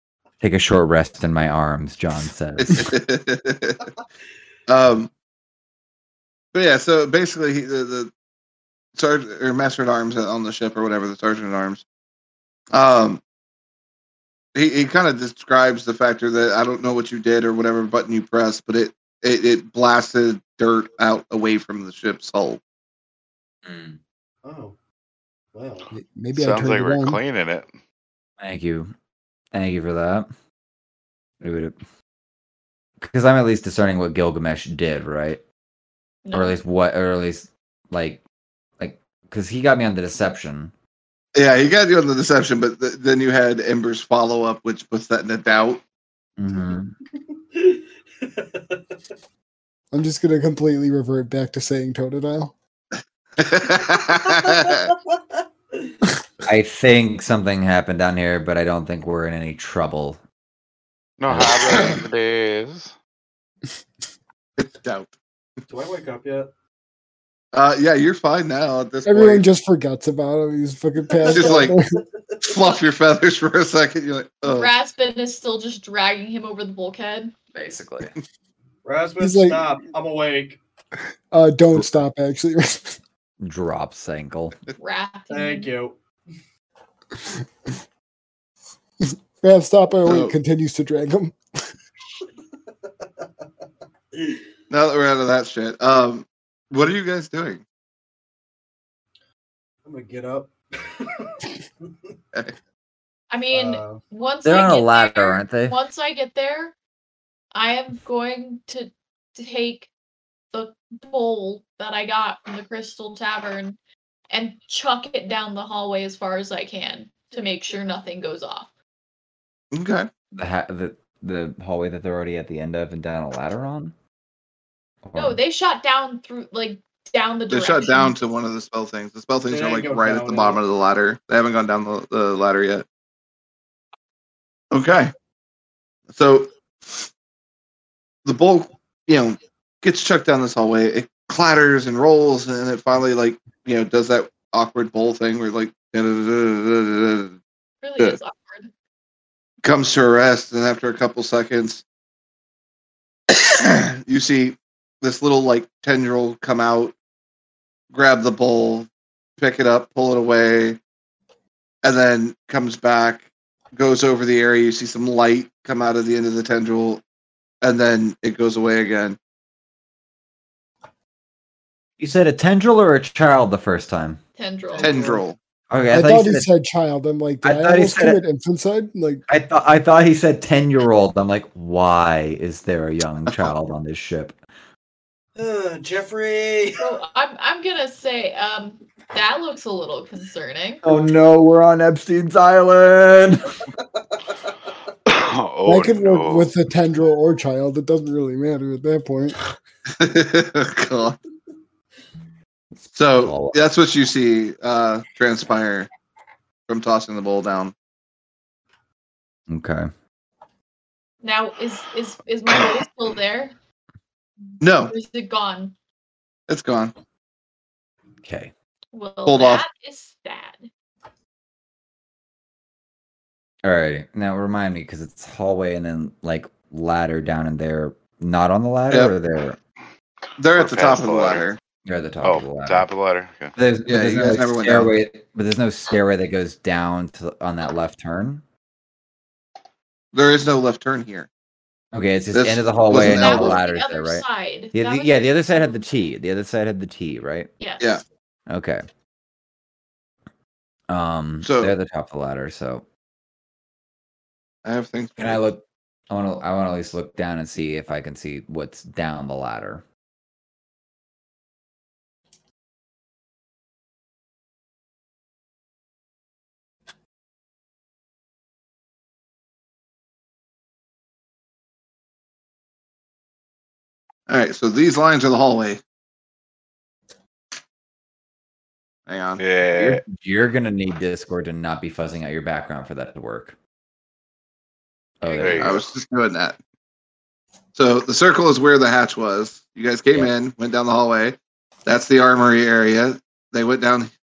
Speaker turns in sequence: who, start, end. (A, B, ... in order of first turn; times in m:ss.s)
0:00.4-0:02.9 A
0:02.6-0:03.8 B
0:04.7-0:05.1 B
0:06.5-0:08.1 B
0:09.0-0:11.8 B
0:12.7-0:13.2 B
0:14.5-0:22.6 B
0:23.6-0:24.0 A
0:24.4-0:24.8 C
0:25.5-0:25.9 C
0:25.9-0:27.2 D
0:26.3-0:27.7 E
0:28.4-0:28.9 A
0:29.5-0:30.3 A
0:31.4-0:31.8 A
0:33.0-0:35.4 A
0:36.2-0:36.6 F
0:36.3-0:38.2 A
0:38.8-0:40.7 A
0:41.3-0:45.8 B
0:46.4-0:46.9 A
0:47.5-0:49.0 C
0:49.9-0:52.5 D
0:53.4-0:54.9 B
0:56.4-1:00.2 A
1:01.2-1:02.9 E
1:01.3-1:01.8 A
1:04.6-1:05.1 B
1:05.7-1:06.5 C
1:07.5-1:09.4 B
1:09.0-1:12.0 D
1:11.2-1:11.7 C
1:11.3-1:11.8 B
1:12.4-1:14.7 B
1:14.4-1:17.3 F
1:17.5-1:18.1 A
1:18.8-1:20.6 C
1:19.2-1:19.7 D
1:21.3-1:23.0 D
1:23.4-1:24.6 A
1:24.8-1:25.7 F
1:25.3-1:26.0 C
1:29.0-1:31.6 D
1:30.0-1:30.3 B
1:33.0-1:33.2 C
1:34.1-1:34.4 C
1:34.7-1:37.6 B
1:39.8-1:41.5 C
1:43.3-1:46.7 F
1:43.5-1:44.0 C
1:44.4-1:45.8 A
1:47.5-1:49.9 F
1:50.5-1:53.8 F
1:54.3-1:58.7 F
1:59.7-2:00.1 B
2:00.3-2:03.9 A
2:05.0-2:05.4 A
2:05.2-2:08.2 F
2:07.5-2:12.8 B
2:09.5-2:10.6 C
2:14.7-2:15.1 B
2:16.1-2:17.1 B
2:18.2-2:27.4 B
2:27.8-2:28.7 F
2:29.6-2:31.8 B
2:33.3-2:36.9 B
2:37.9-2:40.8 B
2:41.8-2:47.0 B
2:47.6-2:49.2 B
2:52.0-2:54.2 A
2:54.4-2:55.2 F
2:54.8-2:55.4 B
2:54.8-2:55.2 C
2:55.7-2:56.5 A
2:55.9-2:59.2 D
2:57.4-2:58.2 A
2:59.3-3:04.4 A
3:05.4-3:06.8 C
3:06.8-3:10.8 F
3:10.8-3:13.6 A
3:15.1-3:16.5 E
3:15.6-3:19.4 D
3:19.9-3:21.2 B
3:22.9-3:25.9 B
3:23.1-3:23.6 A
3:26.7-3:27.7 B
3:29.5-3:29.9 A
3:31.2-3:33.6 F
3:34.6-3:35.7 F
3:34.6-3:34.9 B
3:36.5-3:36.9 B
3:38.2-3:38.5 A
3:38.9-3:40.7 F
3:39.2-3:39.6 B
3:43.6-3:49.6 A
3:50.4-3:51.6 B
3:50.6-3:51.4 E
3:51.8-3:52.9 A
3:52.2-3:53.5 E
3:53.5-3:58.4 A
3:53.8-3:54.9 B
4:00.1-4:01.3 B
4:01.9-4:07.5 A
4:02.3-4:03.6 B
4:02.9-4:05.7 F
4:07.6-4:08.0 F
4:08.5-4:08.8 A
4:10.9-4:12.8 A
4:11.4-4:11.7 B
4:14.6-4:15.4 B
4:15.2-4:19.8 A
4:34.3-4:35.8 B
4:39.1-4:40.0 B
4:39.4-4:40.0 E
4:40.1-4:43.6 A
4:45.2-4:45.8 A
4:45.2-4:45.8 F
4:45.4-4:45.8 E
4:45.6-4:46.6 B
4:47.8-4:54.1 B